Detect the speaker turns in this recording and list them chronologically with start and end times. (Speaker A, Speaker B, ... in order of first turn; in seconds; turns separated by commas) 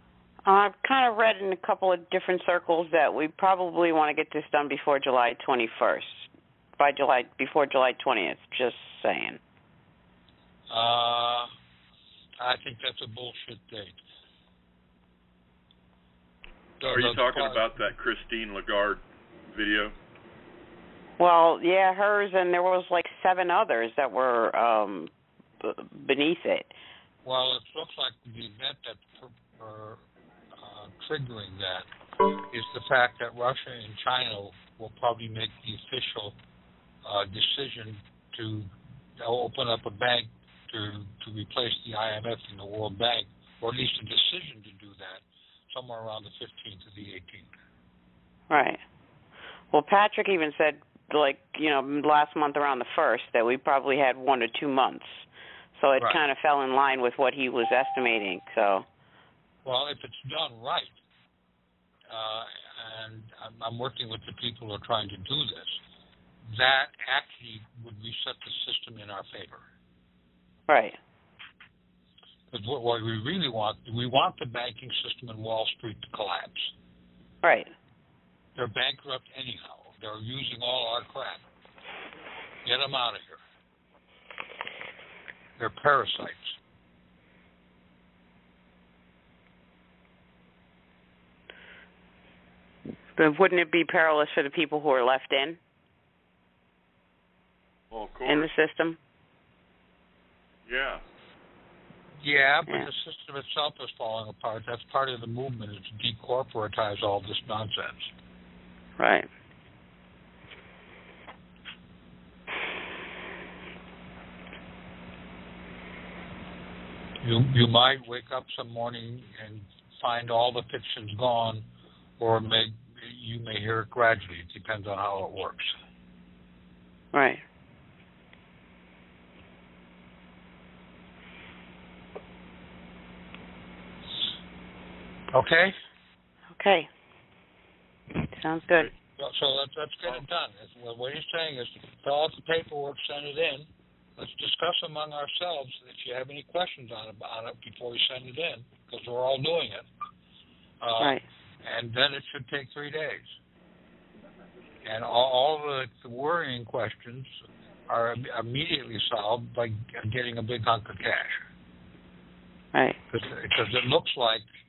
Speaker A: 0.5-9.4, Speaker B: 10.7-11.5, Speaker B: 12.4-14.0, Speaker B: 16.8-17.8, Speaker C: 16.8-19.9, Speaker A: 21.2-26.7, Speaker B: 27.2-36.4, Speaker B: 37.0-47.5, Speaker A: 48.5-48.8, Speaker A: 49.7-55.2, Speaker A: 55.8-58.9, Speaker B: 59.6-61.0, Speaker B: 62.1-65.8, Speaker B: 66.5-69.6, Speaker A: 70.7-71.0, Speaker B: 72.5-76.7, Speaker A: 77.4-77.7, Speaker B: 78.6-81.4, Speaker B: 82.6-83.4, Speaker B: 85.6-86.6, Speaker A: 93.2-95.6, Speaker C: 97.9-98.5, Speaker A: 98.3-99.0, Speaker C: 100.7-101.0, Speaker B: 102.2-108.1, Speaker A: 109.0-109.3, Speaker B: 117.2-121.6, Speaker B: 122.2-125.7, Speaker A: 127.1-127.4, Speaker B: 135.3-135.8, Speaker A: 136.5-136.9, Speaker A: 138.2-138.9, Speaker B: 139.2-149.9, Speaker B: 150.8-153.3, Speaker B: 154.8-157.3, Speaker B: 157.9-161.4, Speaker B: 163.1-164.4